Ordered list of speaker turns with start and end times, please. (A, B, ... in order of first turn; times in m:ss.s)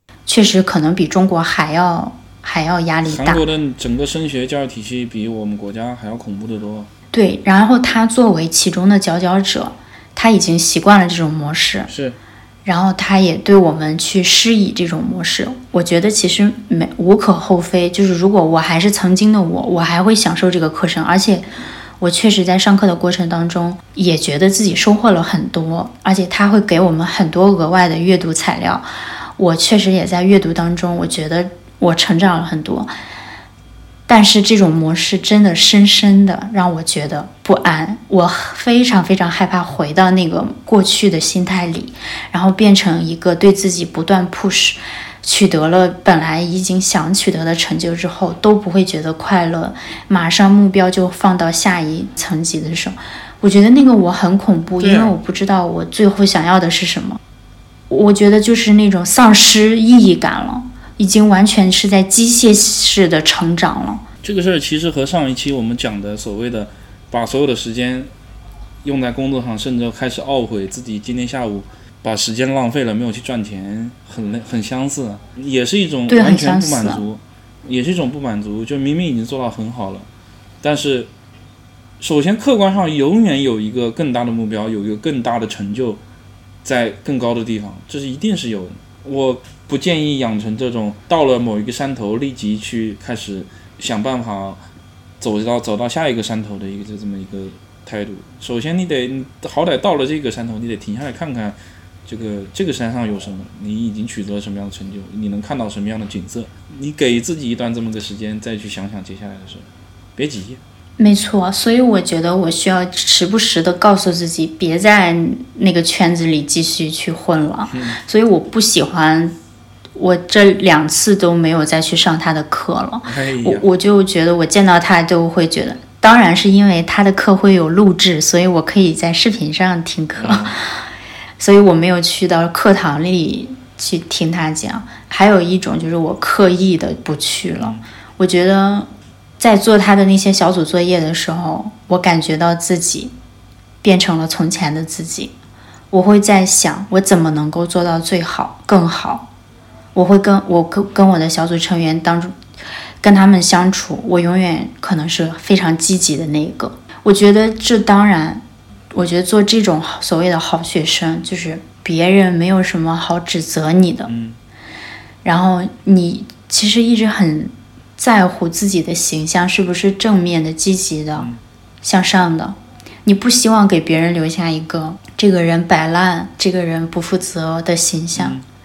0:00.3-0:03.4 A
0:03.0-0:06.9 B
0:07.1-0:11.9 A
0:11.9-0:12.2 B
0:12.6-0:21.5 A
0:22.0-0:28.8 A
0:29.4-0:32.9 A
0:34.1-0:57.2 A
0:54.8-0:55.2 B
0:57.9-1:04.0 A
1:04.2-1:08.1 B
1:08.8-1:20.1 B
1:16.1-1:17.0 A
1:20.6-1:21.1 B
1:22.0-1:26.0 B
1:26.6-1:34.6 B
1:35.2-1:50.6 B
1:51.0-1:59.4 A
1:57.7-1:58.0 B
2:00.0-2:10.8 A
2:03.0-2:03.7 B
2:10.2-2:10.6 B
2:11.4-2:18.9 A
2:17.6-2:17.8 B
2:19.4-2:23.1 A
2:23.8-2:25.3 A
2:25.9-2:29.3 A
2:30.0-2:32.3 A
2:33.0-2:44.1 A
2:44.1-2:44.4 B
2:45.2-2:51.3 A
2:51.8-2:58.4 A
2:58.2-2:58.4 B